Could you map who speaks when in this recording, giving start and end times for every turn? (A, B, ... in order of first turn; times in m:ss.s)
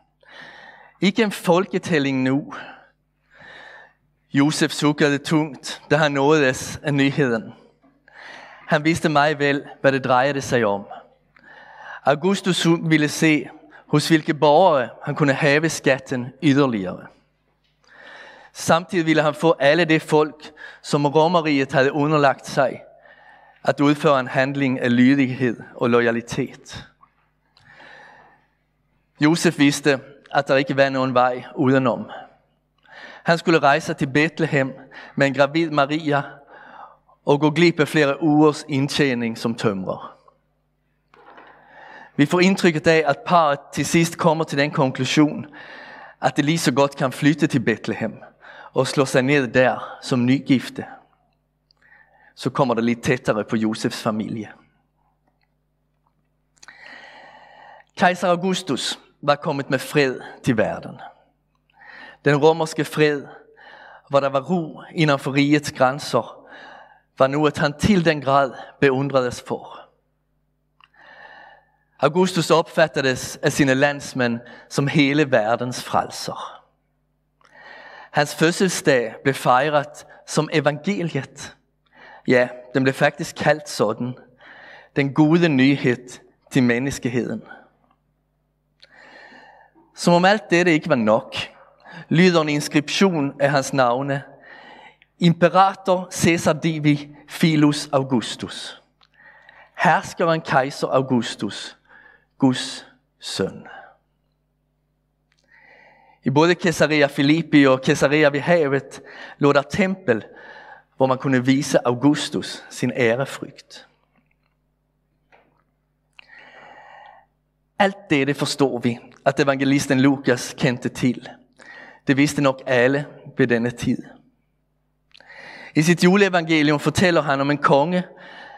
0:01.0-0:02.6 A
0:04.3-0:07.5 A
0:08.7-0:10.9 A
0:12.0-0:17.1 A
0:18.5-0:22.8 A
0:23.6-0:26.8 A
0:29.2-0:32.1 A
0:33.2-0:36.3 A
0:37.2-0:40.1 A
0:42.2-0:45.5 A
0:46.2-0:48.2 A
0:48.7-0:50.9 A
0:52.4-0:54.5 A
0:58.0-1:01.0 A
1:02.2-1:03.3 A
1:04.1-1:06.4 A
1:07.2-1:09.8 A
1:12.0-1:16.4 A
1:18.1-1:21.6 A
1:22.3-1:24.2 A
1:25.0-1:27.4 A
1:30.0-1:31.5 A
1:32.1-1:34.2 A
1:35.2-1:38.8 A
1:39.8-1:41.8 A
1:42.4-1:43.7 A
1:46.2-1:50.3 A
1:51.0-1:53.9 A
1:57.8-2:01.3 A
2:02.1-2:04.1 A
2:05.8-2:08.1 A